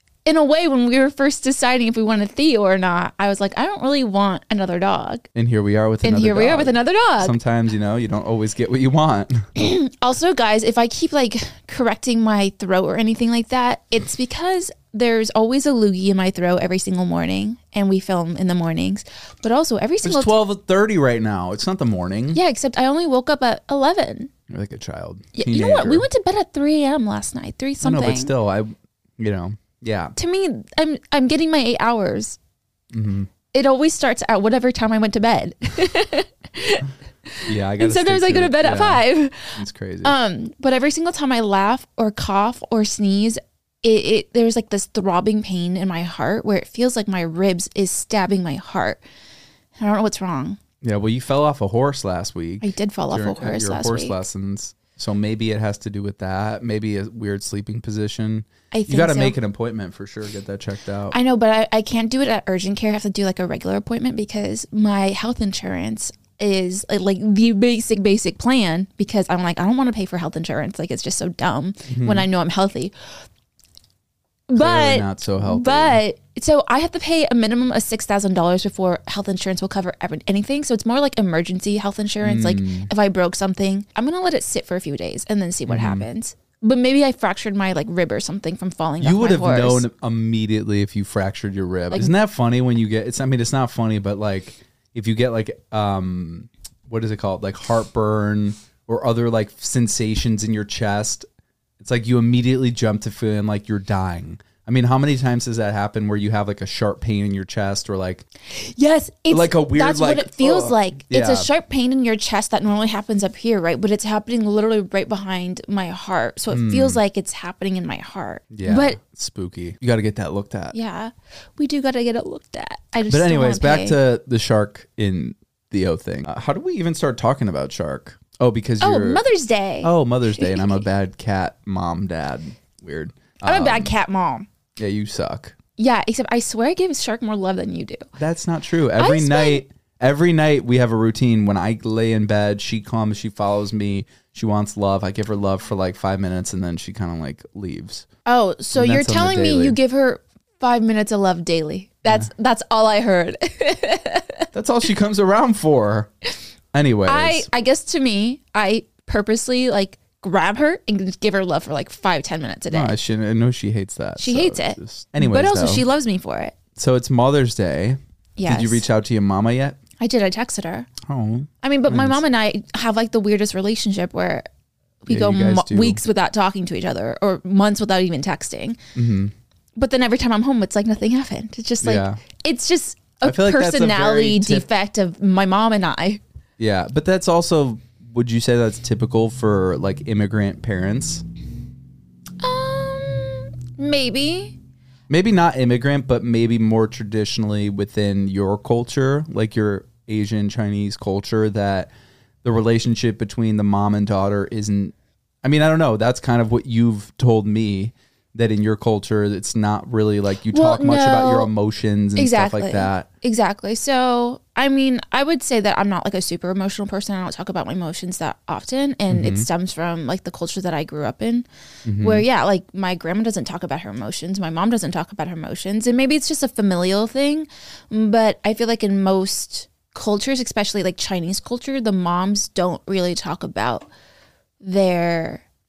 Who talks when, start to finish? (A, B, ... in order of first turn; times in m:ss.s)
0:00.2-0:05.3 A
0:05.4-0:09.5 B
0:06.0-0:07.4 A
0:09.6-0:20.4 A
0:20.0-0:22.4 B
0:22.3-0:24.3 A
0:24.5-0:26.1 B
0:25.3-0:28.3 A
0:27.8-0:30.2 B
0:30.2-0:32.4 A
0:32.9-0:33.3 B
0:33.5-0:49.0 A
0:37.5-0:39.0 B
0:39.6-0:40.2 B
0:49.8-0:50.6 A
0:50.8-1:01.2 B
0:52.6-0:54.2 A
0:58.7-0:59.4 A
1:01.1-1:12.9 A
1:11.9-1:12.3 B
1:14.5-1:29.8 A
1:14.6-1:16.0 B
1:22.2-1:22.9 B
1:25.7-1:26.1 B
1:29.0-1:41.3 B
1:41.8-1:48.2 B
1:48.5-1:59.0 A
1:49.3-1:51.5 B
1:56.5-1:57.0 B
1:58.5-2:00.8 B
2:00.7-2:04.0 A
2:03.1-2:09.2 B
2:08.8-2:10.8 A
2:09.8-2:13.9 B
2:13.4-2:14.5 A
2:14.8-2:15.5 B
2:15.8-2:18.1 A
2:18.2-2:28.1 B
2:19.0-2:19.6 A
2:28.3-2:34.5 A
2:28.7-2:29.8 B
2:34.5-2:36.1 B
2:36.7-2:37.5 B
2:37.1-2:43.0 A
2:42.7-2:45.8 B
2:44.2-2:46.6 A
2:46.8-2:49.8 B
2:48.4-2:48.8 A
2:50.0-2:50.9 A
2:51.0-2:52.2 B
2:51.6-2:54.5 A
2:55.0-2:58.8 A
2:55.1-2:56.0 B
2:59.0-2:59.3 B
2:59.8-3:06.2 A
3:01.8-3:02.2 B
3:03.2-3:04.7 B
3:06.6-3:11.2 B
3:12.4-3:14.6 A
3:15.1-3:21.9 B
3:22.4-3:33.1 B
3:30.5-3:31.5 A
3:32.2-3:41.5 A
3:39.1-3:39.5 B
3:41.8-3:42.2 B
3:42.0-3:53.9 A
3:54.6-3:55.4 A